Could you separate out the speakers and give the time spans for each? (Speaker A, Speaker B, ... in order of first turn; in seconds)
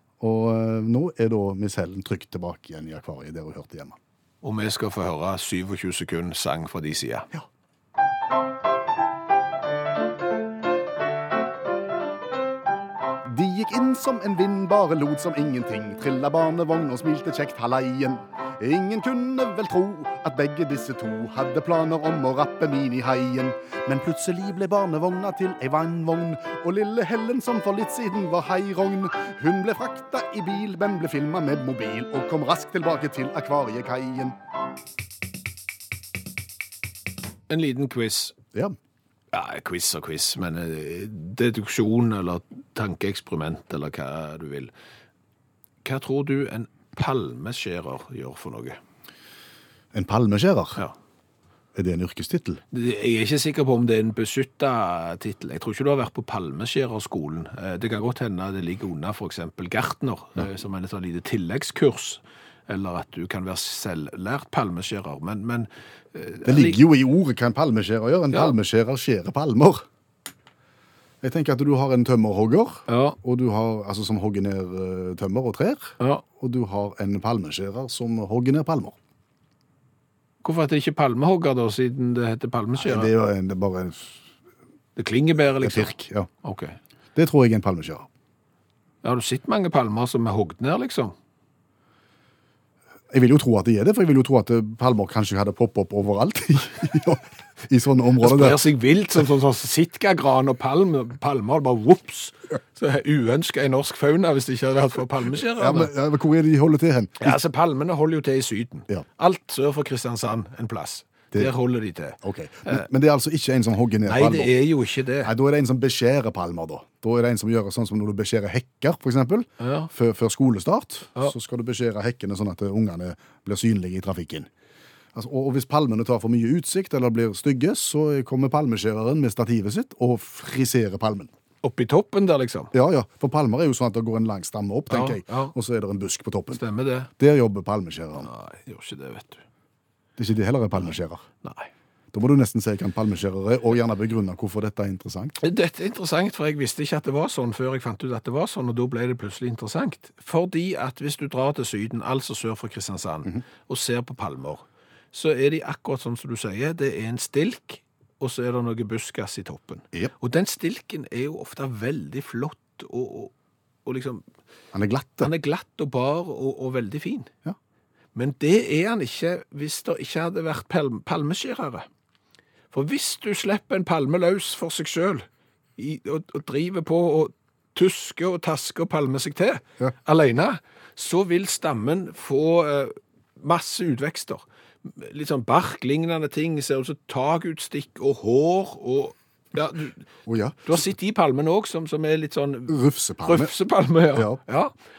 Speaker A: 0.2-4.0, 13.2-34.4, 49.9-50.8, 51.8-52.6, 66.5-69.9, 71.2-79.0, 82.8-84.1, 85.6-86.3, 87.2-88.1, 93.1-98.7, 105.5-107.4, 112.2-114.6, 115.2-124.5, 125.1-131.3, 132.7-136.6, 137.2-138.3, 140.2-141.2, 142.1-145.4, 164.7-165.3, 190.3-190.8, 192.7-193.5, 194.1-194.4
Speaker B: 4.4-7.3, 37.5-38.4, 39.3-44.7, 45.8-48.8, 52.7-66.8, 72.9-73.2, 80.4-83.1, 85.0-86.8, 89.0-91.2, 98.2-105.9, 107.2-112.8, 114.1-115.3, 119.6-119.9, 131.6-132.7, 134.9-135.5, 136.5-137.1, 138.2-139.4, 141.4-141.7, 145.4-163.3, 163.8-164.2, 165.2-167.3, 168.2-171.9, 172.7-175.3, 175.8-190.1, 190.7-194.7